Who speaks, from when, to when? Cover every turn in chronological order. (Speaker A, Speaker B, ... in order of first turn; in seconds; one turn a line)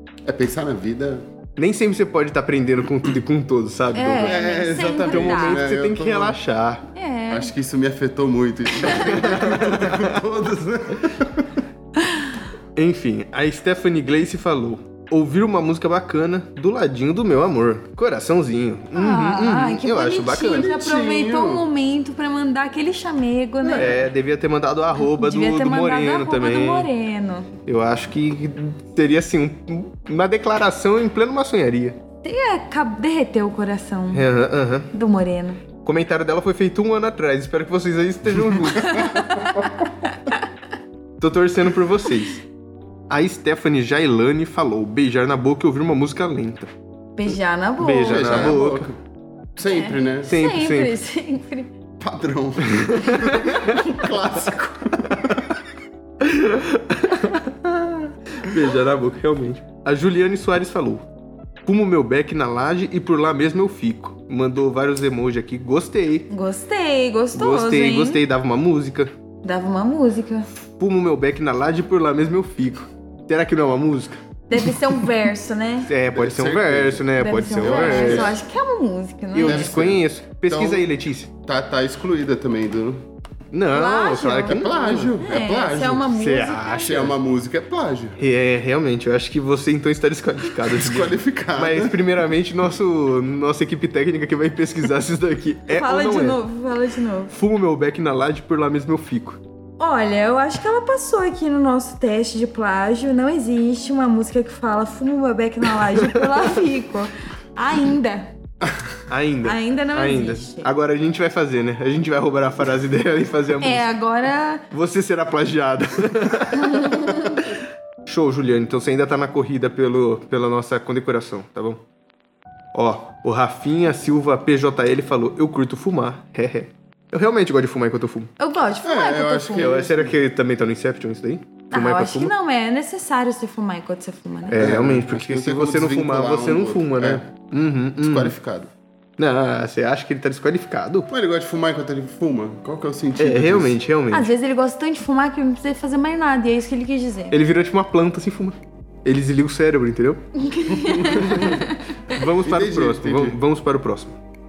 Speaker A: 0.3-1.2
Speaker B: 1.6-4.4
Speaker C: 3.9-5.7
Speaker A: 4.2-6.4
Speaker B: 5.0-6.9
Speaker C: 7.0-7.5
Speaker A: 7.3-11.6
Speaker B: 8.8-10.2
Speaker C: 12.0-12.3
Speaker B: 12.8-20.8
Speaker C: 18.9-24.1
Speaker A: 20.4-21.7
Speaker B: 23.7-26.9
Speaker C: 25.0-27.5
Speaker B: 27.7-32.0
Speaker C: 32.2-34.3
Speaker B: 34.1-34.9
Speaker C: 34.9-35.6
Speaker B: 35.8-39.2
Speaker A: 38.8-39.7
Speaker C: 38.9-39.7
Speaker B: 41.2-42.4
Speaker B: 43.1-46.7
Speaker C: 47.2-48.6
Speaker B: 47.8-48.9
Speaker A: 48.1-49.0
Speaker A: 49.6-50.3
Speaker C: 49.7-51.7
Speaker B: 50.3-51.0
Speaker A: 52.0-55.5
Speaker B: 52.7-53.8
Speaker B: 56.2-61.1
Speaker B: 61.6-66.3
Speaker C: 66.3-68.2
Speaker B: 67.3-69.1
Speaker C: 69.4-70.5
Speaker B: 70.6-74.7
Speaker C: 74.5-75.9
Speaker B: 75.8-78.4
Speaker A: 76.1-78.4
Speaker C: 77.2-79.8
Speaker B: 79.3-81.3
Speaker A: 79.4-80.9
Speaker A: 81.5-83.1
Speaker B: 83.5-85.2
Speaker C: 83.7-84.7
Speaker A: 84.5-86.1
Speaker C: 85.2-87.0
Speaker B: 86.1-87.1
Speaker A: 86.8-88.2
Speaker B: 88.2-96.4
Speaker A: 90.6-92.0
Speaker C: 95.7-97.3
Speaker B: 97.3-99.4
Speaker C: 99.8-108.3
Speaker B: 109.1-113.9
Speaker C: 109.4-110.7
Speaker C: 113.6-114.7
Speaker B: 114.7-121.8
Speaker C: 116.6-117.4
Speaker B: 122.7-128.3
Speaker C: 128.4-129.8
Speaker A: 128.8-130.2
Speaker B: 129.6-132.3
Speaker C: 131.7-134.7
Speaker B: 134.5-138.3
Speaker A: 134.6-137.2
Speaker A: 138.0-138.7
Speaker B: 139.2-141.1
Speaker A: 141.1-143.8
Speaker B: 143.2-144.3
Speaker C: 144.1-147.4
Speaker B: 147.3-150.2
Speaker C: 150.4-151.8
Speaker A: 150.7-151.7
Speaker B: 151.1-154.2
Speaker A: 152.2-153.4